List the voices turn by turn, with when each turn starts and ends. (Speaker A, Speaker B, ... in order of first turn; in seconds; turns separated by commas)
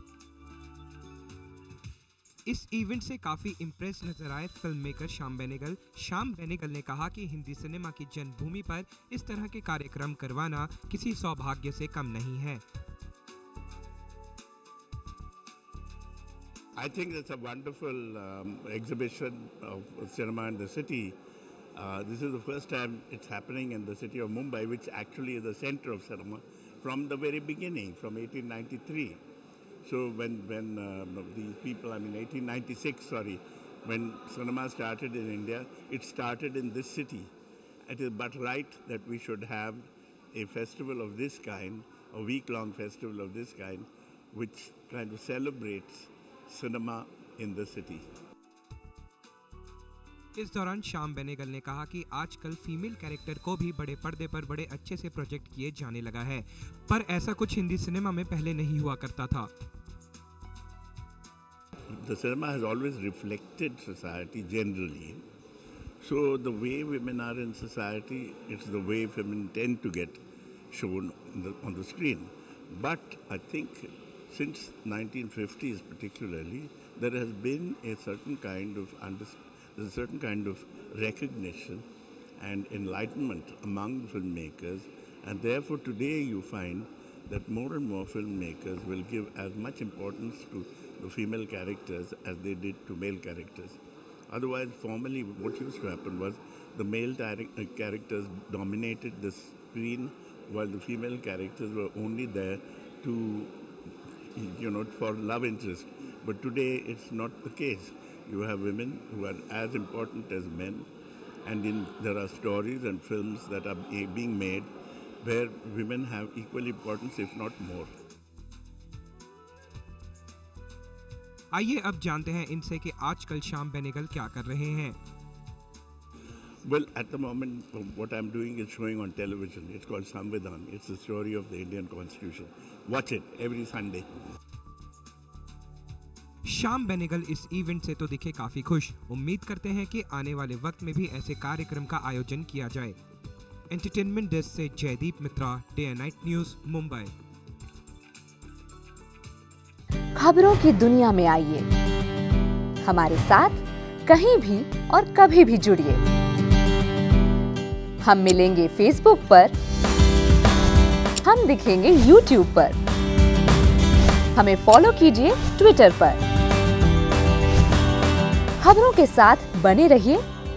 Speaker A: 2.5-12.6, Speaker B: 16.8-21.2, Speaker B: 21.7-29.2, Speaker B: 29.8-37.3, Speaker B: 37.9-48.1, Speaker A: 50.4-59.5, Speaker B: 61.9-65.2, Speaker B: 66.0-81.9, Speaker B: 82.4-103.6, Speaker B: 104.3-110.9, Speaker B: 111.4-114.7, Speaker B: 115.2-117.9, Speaker A: 121.5-125.0, Speaker B: 126.6-134.1, Speaker A: 136.4-143.0, Speaker A: 143.7-147.1, Speaker C: 150.2-151.7, Speaker C: 152.8-156.0, Speaker C: 158.0-159.6, Speaker C: 161.2-162.8, Speaker C: 164.3-166.2, Speaker C: 168.6-170.2